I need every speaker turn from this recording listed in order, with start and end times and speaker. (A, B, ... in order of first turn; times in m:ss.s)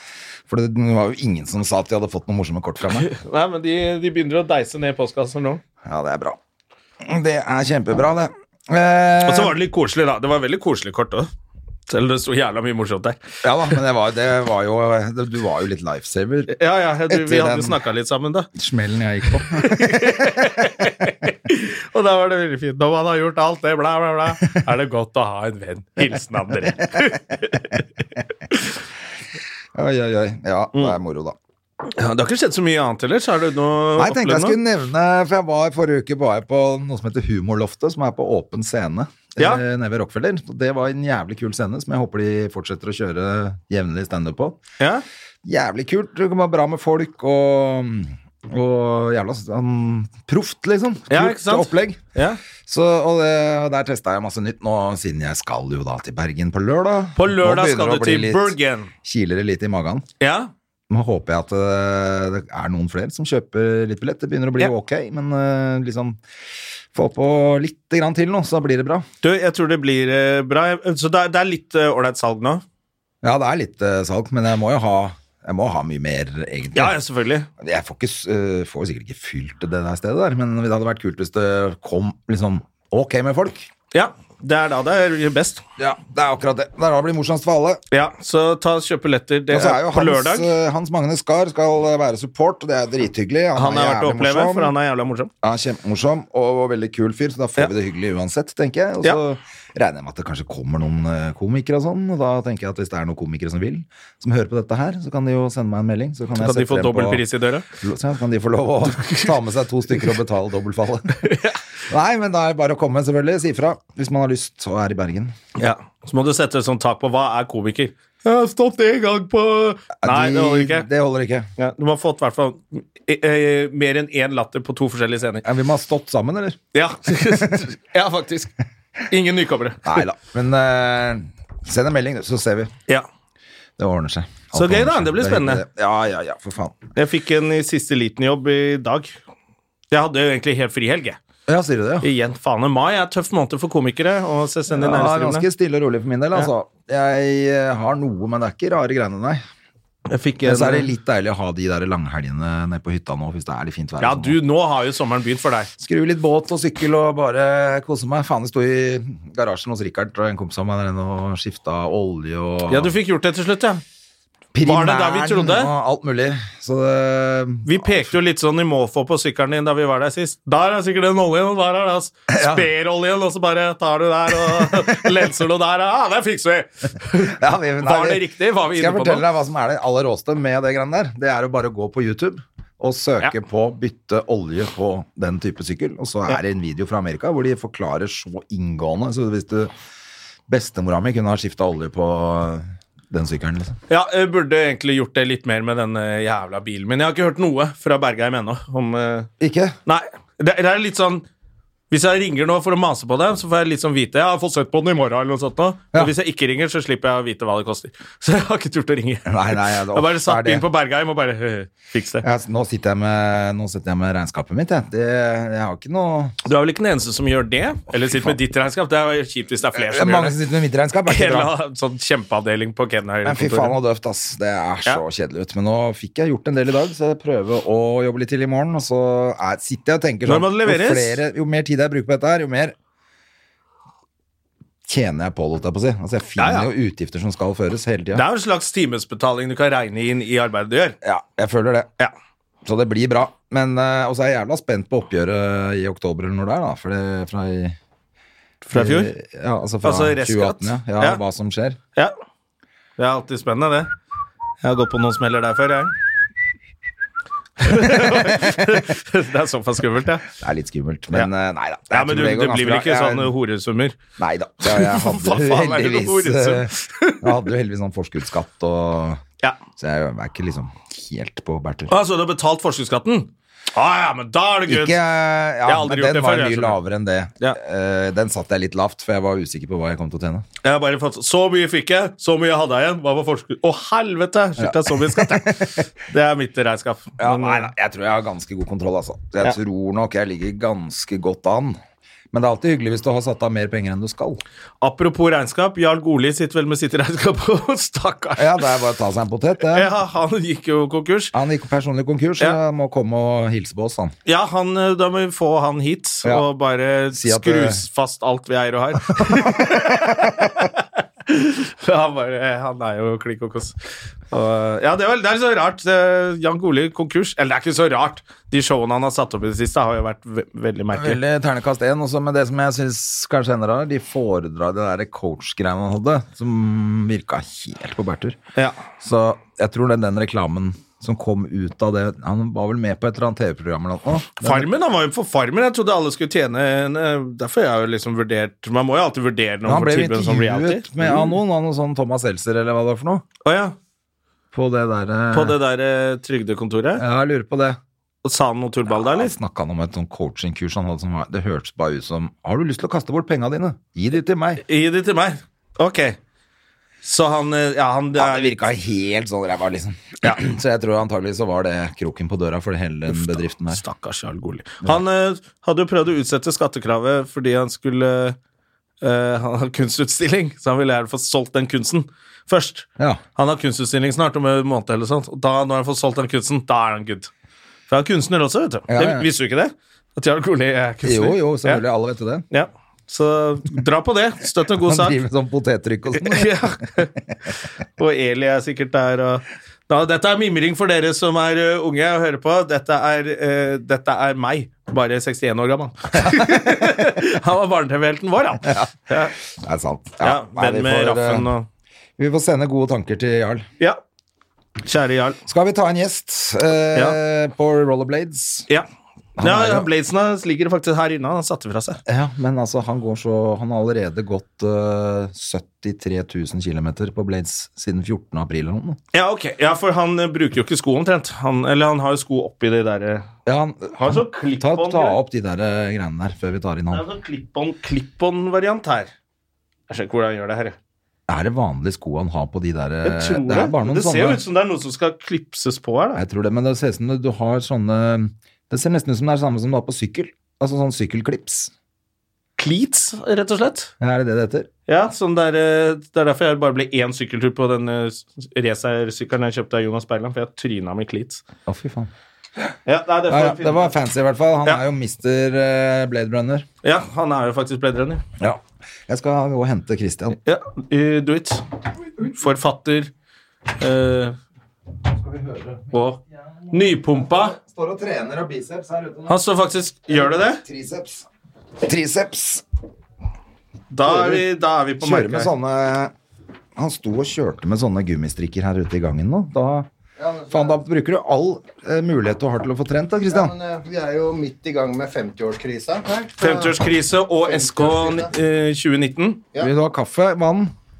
0:00.5-0:03.1 A
0:02.9-0:05.6 B
0:05.8-0:06.4 A
0:07.0-0:09.6 A
0:09.2-0:11.3 B
0:11.9-0:13.8 B
0:13.4-0:16.5 A
0:16.5-0:18.5 B
0:17.1-0:17.8 A
0:18.5-0:20.7 A
0:19.5-0:27.8 B
0:29.7-0:31.4 A
0:31.8-0:34.6 B
0:34.0-0:44.6 A
0:39.4-0:39.6 B
0:44.8-0:45.0 B
0:45.4-0:52.0 A
0:51.1-0:52.4 B
0:52.6-1:00.1 A
0:57.2-0:58.9 B
1:00.2-1:00.5 B
1:00.9-1:06.2 A
1:06.9-1:09.0 A
1:09.2-1:12.6 B
1:13.2-1:17.0 A
1:16.7-1:17.5 B
1:17.6-1:23.7 A
1:23.9-1:25.6 B
1:25.8-1:27.8 A
1:27.9-1:30.5 B
1:29.5-1:34.7 A
1:33.5-1:35.3 B
1:35.4-1:47.2 A
1:46.4-1:47.6 B
1:47.8-1:51.3 A
1:48.9-1:49.3 B
1:51.2-1:51.6 B
1:51.9-1:55.3 A
1:55.6-2:00.9 B
2:00.0-2:01.5 A
2:01.6-2:05.4 B
2:05.4-2:06.6 A
2:06.7-2:08.5 B
2:09.1-2:10.0 B
2:09.8-2:12.7 A
2:13.8-2:16.8 A
2:14.5-2:15.6 B
2:17.0-2:19.2 B
2:19.9-2:21.2 B
2:21.5-2:22.1 A
2:22.0-2:25.5 B
2:24.7-2:29.4 A
2:30.1-2:30.9 B
2:30.4-2:34.4 A
2:34.0-2:35.7 B
2:35.8-2:42.9 A
2:42.7-2:43.8 B
2:44.5-2:48.1 A
2:44.6-2:45.7 B
2:47.6-2:59.2 B
2:52.3-2:52.7 A
2:54.5-2:55.1 A
2:57.2-3:09.7 A
3:10.5-3:13.8 A
3:13.9-3:19.3 B
3:19.4-3:19.8 A
3:19.8-3:21.2 B
3:21.9-3:32.2 B
3:29.2-3:30.6 A
3:32.2-3:36.3 A
3:36.4-3:40.4 B
3:38.0-3:38.3 A
3:39.7-3:41.5 A
3:41.0-3:43.8 B
3:43.2-3:52.7 A
3:50.2-3:51.2 B
3:54.8-3:58.2 A
3:56.4-3:56.7 B
3:58.1-4:01.0 B
4:01.0-4:01.9 A
4:02.6-4:07.8 A
4:08.6-4:09.1 B
4:08.7-4:11.8 A
4:09.8-4:11.2 B
4:13.0-4:13.9 B
4:14.6-4:15.9 B
4:17.6-4:20.3 B
4:17.7-4:18.8 A
4:20.3-4:23.3 A
4:21.9-4:24.0 B
4:24.2-4:29.2 A
4:24.6-4:27.3 B
4:29.8-4:31.9 A
4:31.9-4:35.0 B
4:34.7-4:40.4 A
4:35.6-4:36.8 B
4:40.6-4:47.7 B
4:44.6-4:45.8 A
4:47.2-4:51.8 A
4:52.3-4:54.4 A
4:54.8-4:58.7 B
4:58.4-4:59.9 A
4:59.7-5:01.3 B
5:01.3-5:04.1 A
5:04.2-5:13.8 B
5:07.1-5:07.8 A
5:09.1-5:10.5 A
5:14.3-5:21.2 B
5:20.9-5:28.4 A
5:29.0-5:34.7 A
5:34.4-5:41.3 B
5:39.6-5:43.2 A
5:43.4-5:43.7 B
5:44.5-5:45.6 A
5:45.3-5:47.0 B
5:47.0-5:47.8 A
5:48.2-5:49.3 B
5:48.9-5:54.6 A
5:54.6-5:56.2 B
5:57.0-5:58.6 B
5:58.1-6:03.8 A
6:03.1-6:08.4 B
6:09.0-6:17.3 B
6:17.9-6:21.8 B
6:18.9-6:19.3 A
6:21.0-6:22.4 A
6:22.5-6:25.2 B
6:24.8-6:27.0 A
6:26.1-6:27.1 B
6:28.0-6:39.3 B
6:36.1-6:37.0 A
6:38.6-6:38.9 A
6:39.5-6:41.5 A
6:40.2-6:41.7 B
6:42.2-6:43.7 A
6:44.8-6:45.4 B
6:45.5-6:48.7 A
6:49.4-6:49.9 A
6:49.4-6:52.0 B
6:52.0-6:59.0 A
6:59.1-7:03.3 B
7:03.4-7:07.0 A
7:03.9-7:05.2 B
7:06.9-7:09.1 B
7:09.9-7:10.8 B
7:11.3-7:14.4 A
7:13.0-7:16.2 B
7:16.1-7:21.7 A
7:22.6-7:23.9 B
7:24.0-7:24.7 A
7:24.9-7:31.4 B
7:31.6-7:32.1 A
7:32.8-7:33.9 B
7:33.3-7:36.7 A
7:36.8-7:38.2 B
7:38.4-7:40.4 A
7:40.4-7:41.6 B
7:42.2-7:43.1 B
7:43.8-7:44.4 B
7:45.0-7:49.4 A
7:45.9-7:46.2 B
7:46.7-7:47.6 B
7:49.3-7:50.6 B
7:50.1-7:51.3 A
7:51.8-7:52.6 A
7:53.9-7:55.5 B
7:54.0-7:54.5 A
7:55.0-7:56.1 A
7:56.8-7:59.9 A
8:00.2-8:00.8 C
8:00.5-8:03.5 A
8:03.3-8:06.8 C
8:06.4-8:09.4 B
8:07.4-8:08.3 C
8:09.6-8:10.7 A